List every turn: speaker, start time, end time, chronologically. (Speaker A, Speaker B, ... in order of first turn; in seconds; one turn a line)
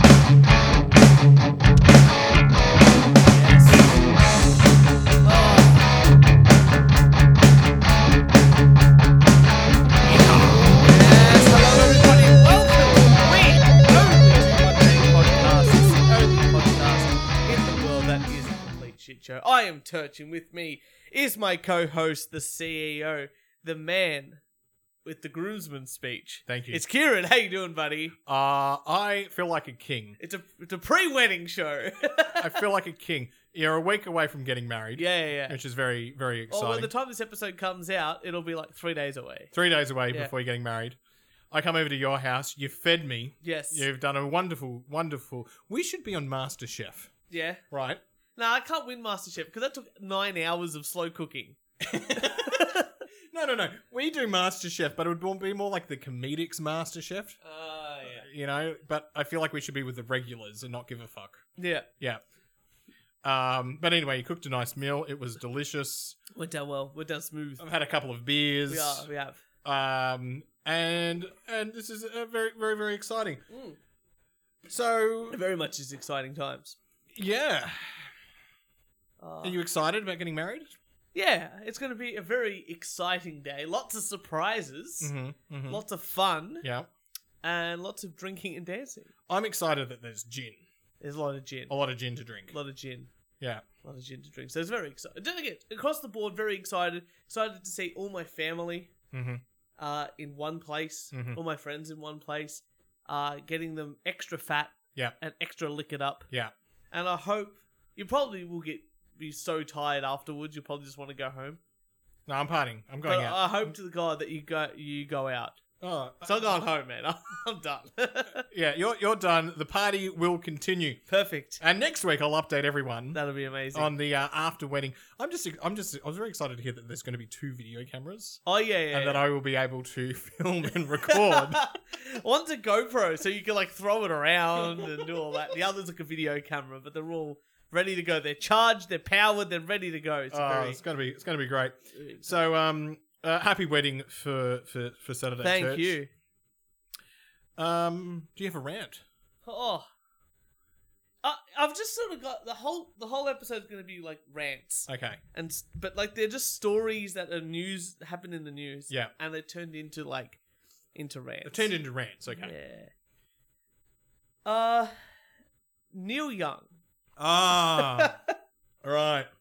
Speaker A: 3.3-4.0
Speaker A: 5.2-5.8
Speaker B: 10.1-10.8
Speaker A: 10.8-24.4
Speaker A: 25.1-28.2
Speaker B: 26.5-26.8
Speaker B: 28.2-30.2
Speaker A: 30.2-32.6
Speaker B: 32.4-36.9
Speaker A: 35.0-35.6
Speaker A: 36.5-39.5
Speaker B: 39.5-41.0
Speaker B: 41.5-47.1
Speaker A: 43.4-43.9
Speaker A: 47.3-47.6
Speaker B: 47.7-48.0
Speaker A: 48.4-51.6
Speaker B: 51.8-57.4
Speaker A: 52.1-52.9
Speaker A: 57.4-58.3
Speaker B: 58.1-61.5
Speaker A: 61.6-61.9
Speaker B: 63.2-66.2
Speaker A: 66.3-67.6
Speaker B: 67.6-69.1
Speaker A: 68.7-69.4
Speaker B: 69.6-73.4
Speaker A: 73.5-73.8
Speaker B: 74.7-75.4
Speaker A: 75.3-76.8
Speaker B: 77.2-78.0
Speaker A: 79.2-79.6
Speaker B: 79.4-80.7
Speaker A: 81.1-85.1
Speaker B: 85.0-85.8
Speaker A: 85.7-86.7
Speaker B: 86.6-86.9
Speaker A: 87.4-89.1
Speaker B: 89.3-90.6
Speaker A: 91.0-91.7
Speaker B: 91.7-92.5
Speaker A: 92.5-93.1
Speaker A: 93.8-98.9
Speaker B: 99.1-99.4
Speaker A: 99.8-106.3
Speaker B: 101.1-101.4
Speaker A: 106.9-111.6
Speaker B: 112.3-113.4
Speaker A: 113.1-115.6
Speaker B: 115.8-116.4
Speaker A: 116.2-118.4
Speaker B: 118.5-121.0
Speaker A: 121.1-121.6
Speaker B: 121.6-123.2
Speaker A: 123.1-123.9
Speaker B: 123.7-128.4
Speaker A: 128.4-129.2
Speaker B: 128.9-131.7
Speaker A: 131.1-140.8
Speaker B: 140.3-145.9
Speaker A: 145.4-146.1
Speaker B: 147.6-149.0
Speaker A: 149.4-149.9
Speaker A: 151.2-160.4
Speaker B: 154.9-155.2
Speaker A: 160.9-161.7
Speaker B: 161.5-162.5
Speaker A: 162.3-162.9
Speaker A: 164.4-164.9
Speaker A: 165.9-166.7
Speaker B: 167.2-168.1
Speaker A: 167.8-168.2
Speaker B: 168.8-169.3